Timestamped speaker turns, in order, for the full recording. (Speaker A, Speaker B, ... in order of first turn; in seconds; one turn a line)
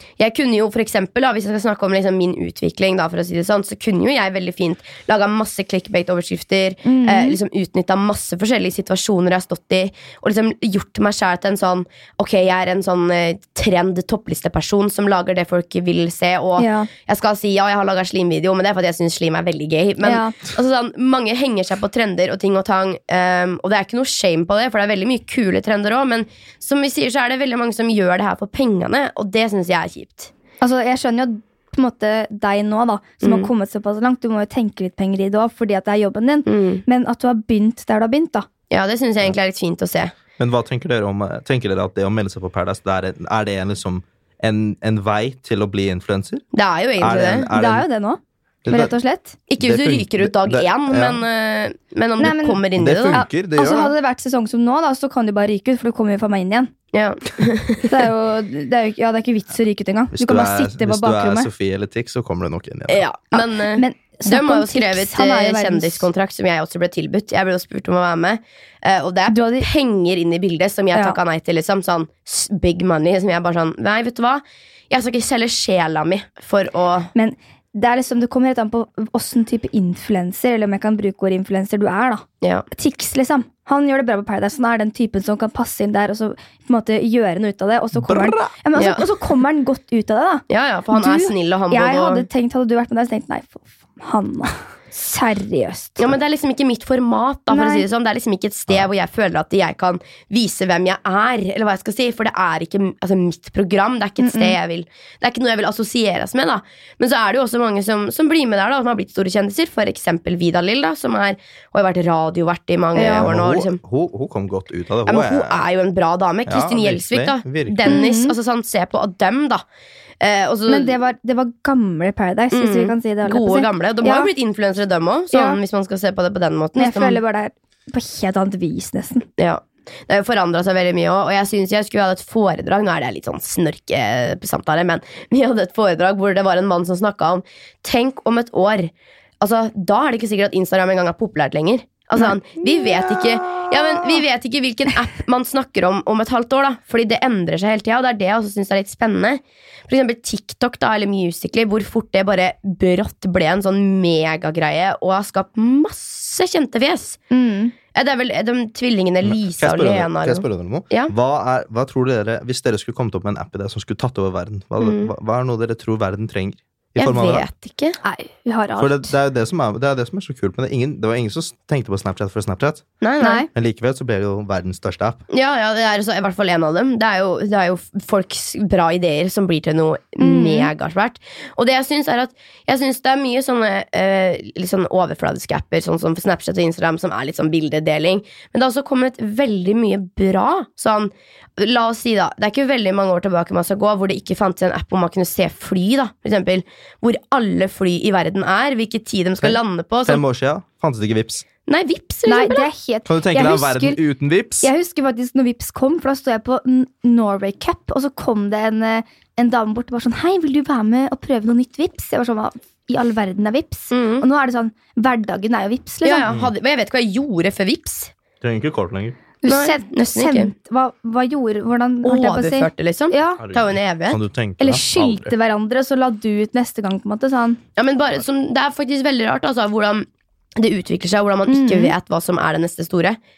Speaker A: 0.2-30.3
Speaker B: 6.8-7.4
Speaker B: 16.6-16.9
Speaker B: 20.0-20.4
Speaker B: 30.6-38.5
Speaker A: 33.2-33.5
Speaker A: 36.5-36.8
Speaker A: 38.7-40.1
Speaker C: 40.4-46.5
Speaker A: 46.5-47.5
Speaker C: 47.0-47.9
Speaker B: 47.5-49.4
Speaker C: 48.6-48.9
Speaker A: 49.5-53.2
Speaker C: 49.6-51.2
Speaker B: 52.2-56.7
Speaker C: 52.8-53.9
Speaker A: 56.9-57.9
Speaker B: 57.9-61.5
Speaker C: 60.1-63.1
Speaker A: 62.9-77.1
Speaker B: 63.3-66.1
Speaker B: 69.3-69.7
Speaker B: 77.2-96.0
Speaker A: 82.4-82.7
Speaker C: 88.0-88.5
Speaker A: 88.8-89.0
Speaker A: 90.5-92.3
Speaker A: 96.0-113.8
Speaker B: 97.5-97.8
Speaker B: 104.2-104.6
Speaker B: 113.0-113.3
Speaker C: 113.2-115.6
Speaker A: 115.1-119.6
Speaker C: 116.5-117.9
Speaker B: 117.8-118.3
Speaker A: 120.2-121.0
Speaker B: 120.7-124.3
Speaker A: 122.5-127.2
Speaker B: 125.3-125.6
Speaker B: 126.8-129.3
Speaker A: 129.4-157.2
Speaker B: 157.3-157.7
Speaker A: 157.9-161.1
Speaker C: 159.2-167.5
Speaker A: 164.8-165.1
Speaker A: 167.0-168.0
Speaker B: 168.0-169.1
Speaker C: 168.8-172.9
Speaker A: 173.0-173.5
Speaker B: 173.2-173.5
Speaker C: 173.5-175.2
Speaker A: 175.3-200.2
Speaker B: 180.2-180.7
Speaker C: 199.4-201.5
Speaker A: 201.7-202.7
Speaker B: 202.3-204.0
Speaker C: 203.1-204.7
Speaker B: 204.6-216.3
Speaker A: 213.9-214.3
Speaker A: 216.0-218.1
Speaker C: 218.4-219.2
Speaker B: 219.4-223.4
Speaker A: 219.5-220.5
Speaker A: 222.0-224.2
Speaker C: 223.4-225.3
Speaker B: 224.6-227.6
Speaker A: 227.8-233.2
Speaker B: 231.5-231.9